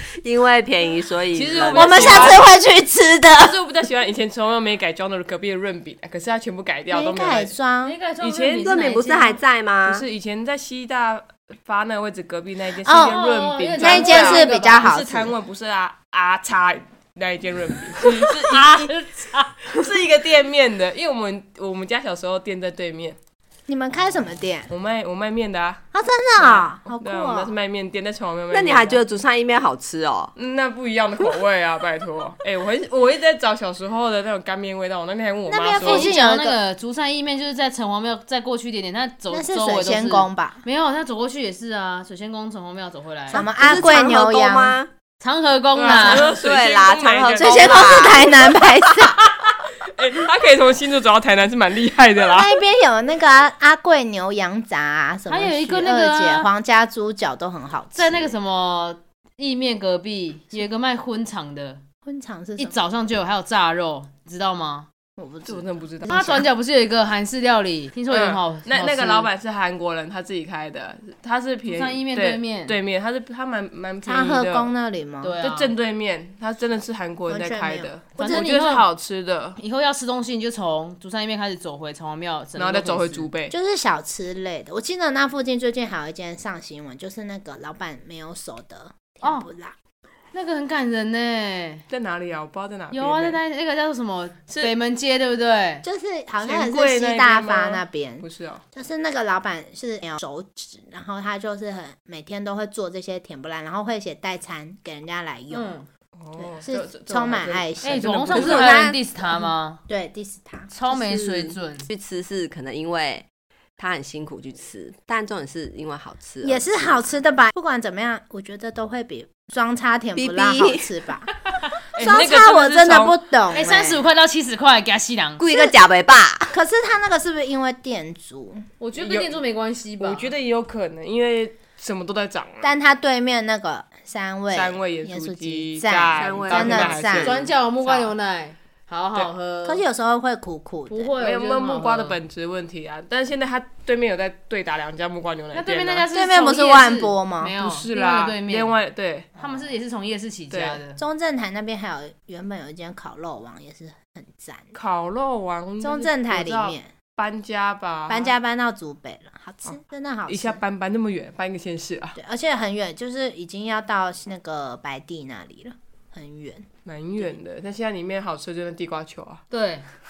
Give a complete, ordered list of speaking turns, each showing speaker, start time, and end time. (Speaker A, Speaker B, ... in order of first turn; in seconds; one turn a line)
Speaker A: 0.2-2.4
Speaker B: 1.3-2.4
Speaker C: 1.7-3.6
Speaker D: 1.9-2.4
Speaker D: 3.4-7.5
Speaker C: 6.9-8.0
Speaker B: 7.8-9.4
Speaker D: 8.2-8.7
Speaker A: 8.6-10.1
Speaker D: 9.9-18.9
Speaker C: 12.8-13.2
Speaker B: 13.0-15.0
Speaker C: 13.8-15.3
Speaker B: 18.4-19.6
Speaker D: 19.7-23.2
Speaker C: 23.7-24.7
Speaker D: 24.7-25.8
Speaker C: 25.9-27.5
Speaker D: 26.4-29.0
Speaker A: 28.5-30.3
Speaker D: 30.4-36.1
Speaker C: 35.5-36.6
Speaker B: 35.8-43.5
Speaker C: 39.3-40.6
Speaker C: 43.3-44.8
Speaker A: 43.3-44.9
Speaker B: 45.2-46.3
Speaker D: 45.7-48.1
Speaker A: 45.9-49.1
Speaker C: 47.4-49.2
Speaker D: 49.8-52.5
Speaker C: 52.2-58.3
Speaker B: 55.3-56.5
Speaker B: 58.0-61.8
Speaker C: 62.0-62.8
Speaker B: 62.6-64.9
Speaker C: 65.2-66.4
Speaker D: 65.5-66.4
Speaker B: 66.1-69.3
Speaker D: 68.1-74.7
Speaker B: 71.7-72.8
Speaker C: 74.0-75.4
Speaker B: 75.2-75.7
Speaker D: 75.4-79.6
Speaker C: 77.3-78.5
Speaker B: 78.2-78.9
Speaker B: 79.6-83.3
Speaker D: 82.6-83.5
Speaker C: 83.5-89.8
Speaker B: 89.2-89.5
Speaker B: 90.3-91.9
Speaker D: 91.9-93.4
Speaker B: 92.9-95.9
Speaker D: 94.5-94.7
Speaker C: 95.8-105.7
Speaker D: 96.4-98.6
Speaker B: 105.5-105.9
Speaker D: 106.2-108.7
Speaker C: 106.4-110.7
Speaker B: 107.8-109.8
Speaker A: 108.3-109.0
Speaker B: 110.7-111.9
Speaker A: 110.9-113.3
Speaker A: 113.8-117.1
Speaker C: 116.4-121.3
Speaker A: 120.2-120.9
Speaker D: 121.9-123.2
Speaker C: 122.0-124.0
Speaker B: 123.5-125.5
Speaker A: 125.4-126.6
Speaker C: 126.5-128.7
Speaker B: 128.8-130.3
Speaker D: 129.0-129.4
Speaker D: 130.0-132.8
Speaker C: 132.6-137.4
Speaker D: 134.5-138.1
Speaker A: 136.2-137.2
Speaker B: 137.2-139.8
Speaker C: 139.7-141.1
Speaker B: 140.9-142.2
Speaker D: 141.2-146.1
Speaker B: 145.5-148.8
Speaker C: 146.1-147.6
Speaker D: 147.6-149.3
Speaker B: 149.4-151.0
Speaker D: 150.5-150.8
Speaker C: 151.0-154.7
Speaker D: 154.7-158.3
Speaker C: 155.8-156.9
Speaker C: 158.1-160.6
Speaker D: 159.7-162.2
Speaker C: 162.2-166.7
Speaker D: 166.8-169.4
Speaker B: 169.5-169.9